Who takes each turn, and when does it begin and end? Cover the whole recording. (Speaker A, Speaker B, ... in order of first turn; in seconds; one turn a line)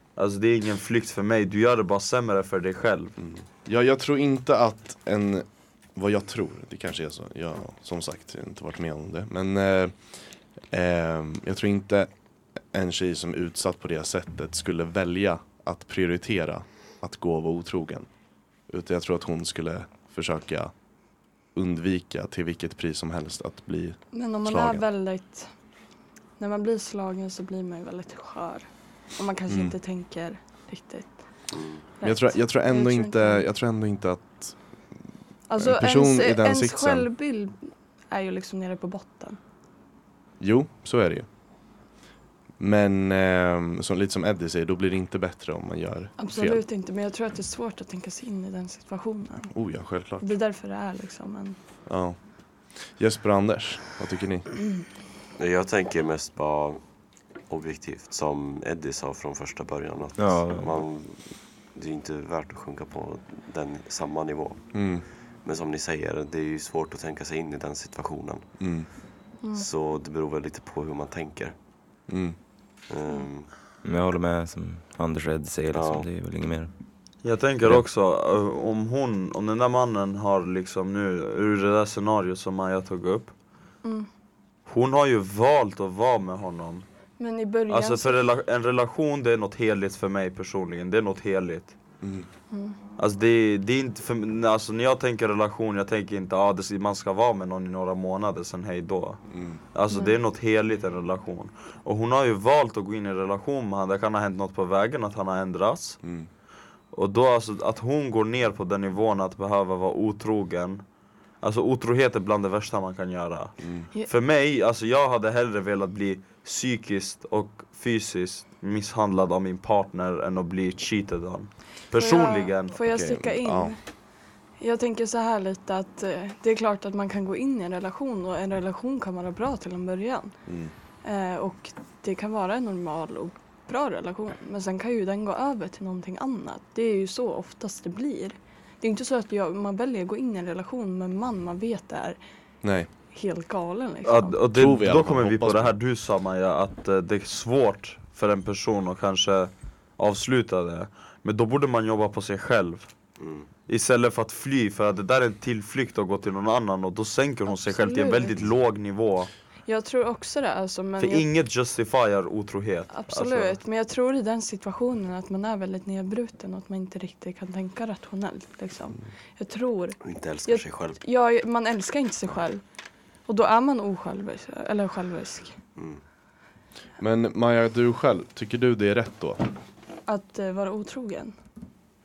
Speaker A: 0.2-3.2
Speaker B: 3.2-10.0
Speaker B: 10.7-12.1
Speaker B: 12.7-18.1
Speaker B: 18.7-20.7
Speaker B: 21.5-24.8
Speaker C: 24.1-25.5
Speaker C: 26.4-31.2
Speaker B: 29.5-29.8
Speaker D: 31.5-31.8
Speaker C: 32.0-33.5
Speaker B: 32.0-34.6
Speaker C: 35.5-39.4
Speaker B: 35.6-37.1
Speaker B: 40.4-41.3
Speaker B: 42.6-46.6
Speaker C: 46.2-49.5
Speaker B: 49.5-50.3
Speaker C: 50.2-51.6
Speaker B: 51.9-52.2
Speaker B: 53.0-54.5
Speaker D: 55.4-56.8
Speaker D: 57.5-64.8
Speaker E: 60.2-60.8
Speaker B: 64.7-65.0
Speaker D: 65.4-68.5
Speaker B: 68.6-68.9
Speaker D: 69.5-71.5
Speaker B: 72.1-72.4
Speaker D: 72.9-73.5
Speaker E: 73.8-76.7
Speaker D: 75.7-76.1
Speaker A: 77.2-83.3
Speaker A: 84.7-86.8
Speaker C: 87.2-88.3
Speaker A: 87.7-91.8
Speaker B: 92.0-92.3
Speaker C: 92.5-92.8
Speaker A: 93.0-99.2
Speaker B: 99.3-99.6
Speaker A: 99.7-106.0
Speaker C: 99.9-100.2
Speaker B: 106.0-106.3
Speaker A: 106.9-110.8
Speaker A: 111.4-122.8
Speaker B: 113.6-113.9
Speaker C: 122.0-123.8
Speaker B: 122.8-123.7
Speaker C: 124.6-130.3
Speaker B: 130.5-130.7
Speaker C: 131.0-142.2
Speaker B: 142.6-142.9
Speaker C: 143.1-144.4
Speaker A: 144.1-152.9
Speaker B: 144.5-145.7
Speaker D: 153.2-153.5
Speaker A: 153.7-159.3
Speaker C: 157.5-158.4
Speaker C: 159.7-161.3
Speaker A: 161.0-163.6
Speaker C: 162.9-172.6
Speaker D: 170.0-171.0
Speaker C: 173.3-175.6
Speaker B: 177.0-179.4
Speaker C: 180.1-181.3